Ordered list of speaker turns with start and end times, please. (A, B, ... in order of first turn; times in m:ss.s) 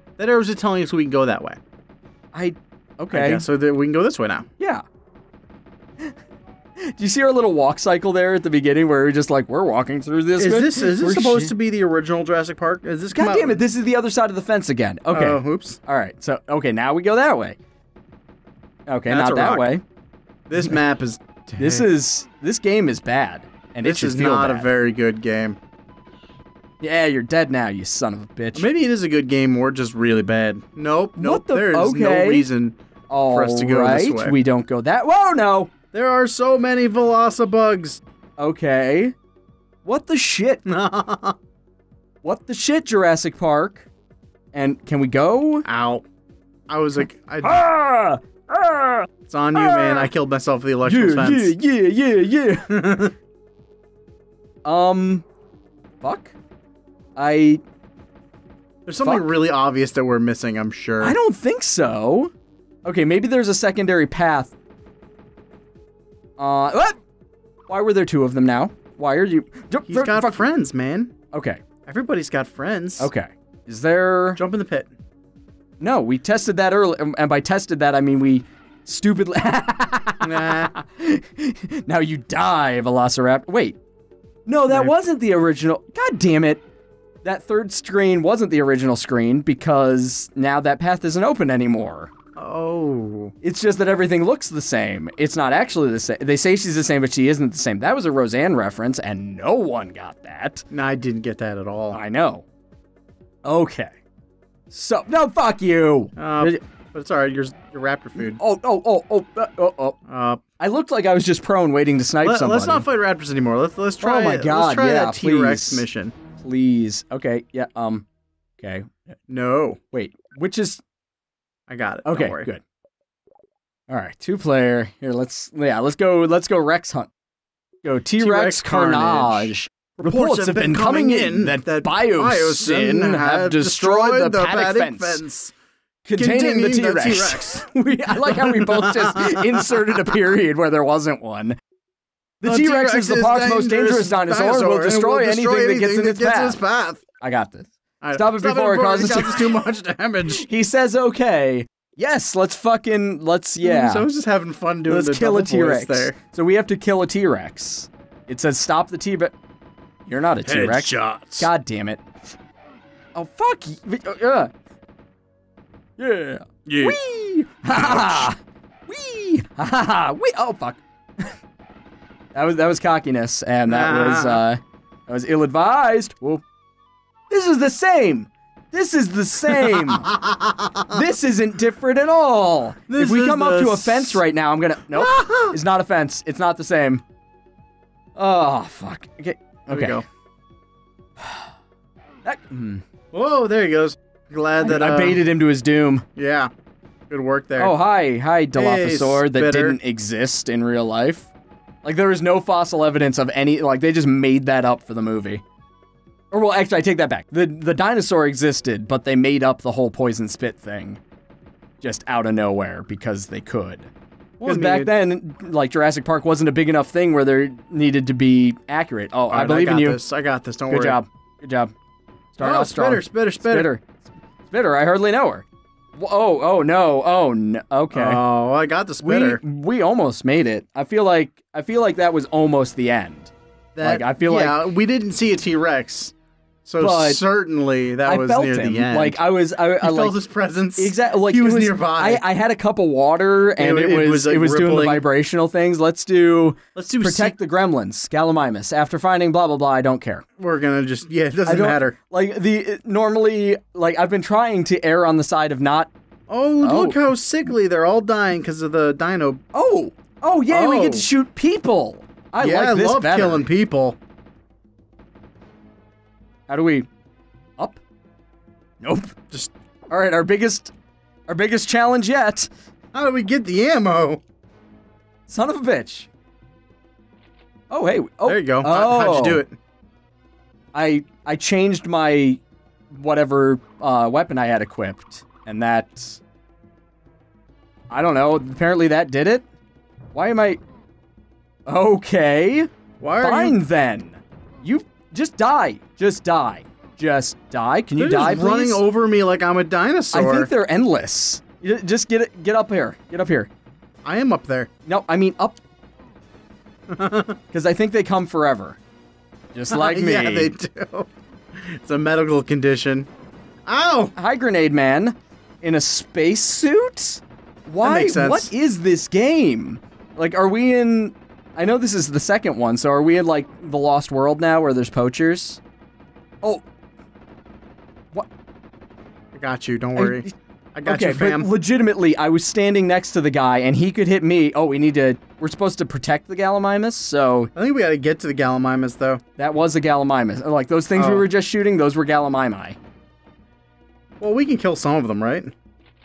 0:00.2-0:01.6 A
0:02.3-0:03.5 B
0:03.1-0:04.5 A
0:06.8-0:11.5 B
0:10.4-0:13.6 A
0:13.1-0:17.6 B
0:15.1-0:15.8 A
0:18.9-0:19.8 B
0:19.1-0:19.7 A
0:20.5-0:21.9 A
0:21.6-0:24.7 B
0:23.8-0:25.6 A
0:26.8-0:28.7 B
0:28.6-0:34.4 A
0:31.2-0:32.5 B
0:33.1-0:35.7 B
0:35.9-0:38.0 A
0:38.4-0:39.1 B
0:39.8-0:40.6 B
0:40.7-0:41.4 A
0:42.2-0:43.9 B
0:44.5-0:45.6 B
0:45.6-0:46.1 A
0:46.7-0:47.6 A
0:47.4-0:50.1 B
0:49.3-0:51.5 A
0:50.8-0:52.9 B
0:52.7-0:53.1 A
0:54.6-0:55.3 B
0:56.0-0:56.4 B
0:57.2-0:57.6 B
0:58.9-1:01.2 A
1:01.0-1:02.3 B
1:02.8-1:04.5 B
1:06.4-1:07.0 B
1:07.7-1:10.4 B
1:09.9-1:11.1 A
1:11.3-1:11.6 B
1:11.9-1:13.1 A
1:13.0-1:14.4 B
1:14.4-1:14.9 A
1:15.8-1:23.8 B
1:20.2-1:20.8 A
1:24.5-1:26.6 B
1:24.7-1:25.0 A
1:27.2-1:32.1 B
1:32.4-1:33.3 A
1:33.4-1:40.7 B
1:40.7-1:42.0 A
1:41.9-1:42.4 B
1:43.4-1:43.9 B
1:44.7-1:46.6 B
1:46.2-1:48.4 A
1:48.2-1:50.0 B
1:50.1-1:50.4 A
1:50.6-1:52.8 B
1:52.2-1:56.1 A
1:54.0-1:55.8 B
1:56.4-1:58.1 B
1:58.6-1:59.2 B
1:59.3-1:59.8 A
1:59.9-2:00.8 B
2:01.7-2:02.5 A
2:02.0-2:02.6 B
2:03.9-2:07.1 B
2:07.8-2:15.2 B
2:08.2-2:15.5 A
2:16.0-2:21.6 B
2:16.2-2:20.1 A
2:22.4-2:26.6 B
2:22.4-2:27.0 A
2:27.2-2:29.6 B
2:28.0-2:30.5 A
2:30.3-2:34.1 B
2:33.6-2:36.2 A
2:34.9-2:39.3 B
2:40.1-2:42.0 B
2:40.4-2:41.5 A
2:43.2-2:44.5 B
2:46.0-2:48.4 B
2:46.7-2:47.0 A
2:47.7-2:48.3 A
2:48.9-2:51.3 B
2:52.4-2:56.4 B
2:53.7-2:54.4 A
2:57.3-3:00.1 B
2:59.5-3:01.1 A
3:00.9-3:07.0 B
3:02.9-3:04.2 A
3:04.9-3:05.6 A
3:08.2-3:10.0 B
3:09.7-3:10.0 A
3:11.2-3:11.5 B
3:12.2-3:12.8 B
3:13.1-3:15.2 A
3:14.6-3:16.0 B
3:16.2-3:16.5 A
3:17.1-3:17.8 A
3:17.6-3:21.3 B
3:18.5-3:19.8 A
3:21.8-3:25.4 B
3:26.3-3:31.0 B
3:31.8-3:40.0 B
3:34.4-3:35.0 A
3:39.3-3:41.0 A
3:40.7-3:41.7 B
3:42.4-3:43.8 B
3:42.4-3:43.7 A
3:44.5-3:48.2 B
3:47.9-3:49.4 A
3:49.0-3:54.6 B
3:53.8-3:56.1 A
3:56.7-3:59.2 A
3:56.8-3:57.2 B
3:58.1-4:00.2 B
3:59.8-4:02.2 A
4:00.8-4:10.2 B
4:03.6-4:05.0 A
4:06.8-4:07.4 A
4:10.4-4:12.0 A
4:11.5-4:15.9 B
4:16.3-4:19.4 A
4:16.6-4:17.0 B
4:19.5-4:23.5 B
4:20.5-4:21.1 A
4:22.4-4:24.0 A
4:26.5-4:26.9 B
4:28.8-4:29.2 B
4:29.9-4:30.7 B
4:31.3-4:32.5 B
4:32.9-4:34.2 A
4:35.3-4:36.1 B
4:37.7-4:39.4 B
4:38.3-4:39.6 A
4:40.7-4:42.4 B
4:42.9-4:46.2 B
4:47.9-4:49.5 B
4:50.1-4:50.6 B
4:51.7-4:52.7 B
4:53.0-4:53.6 A
4:53.2-4:58.8 B
4:58.0-5:00.5 A
5:00.1-5:03.5 B
5:04.0-5:04.7 A
5:04.9-5:05.6 B
5:06.9-5:07.4 A
5:07.5-5:08.8 B
5:09.5-5:10.5 B
5:09.7-5:13.1 A
5:13.7-5:14.1 A
5:14.2-5:25.6 B
5:17.8-5:18.5 A
5:29.3-5:31.5 A
5:30.0-5:30.3 B
5:30.8-5:37.5 B
5:37.6-5:39.2 A
5:39.4-5:42.8 B
5:41.0-5:41.3 A
5:44.2-5:45.5 A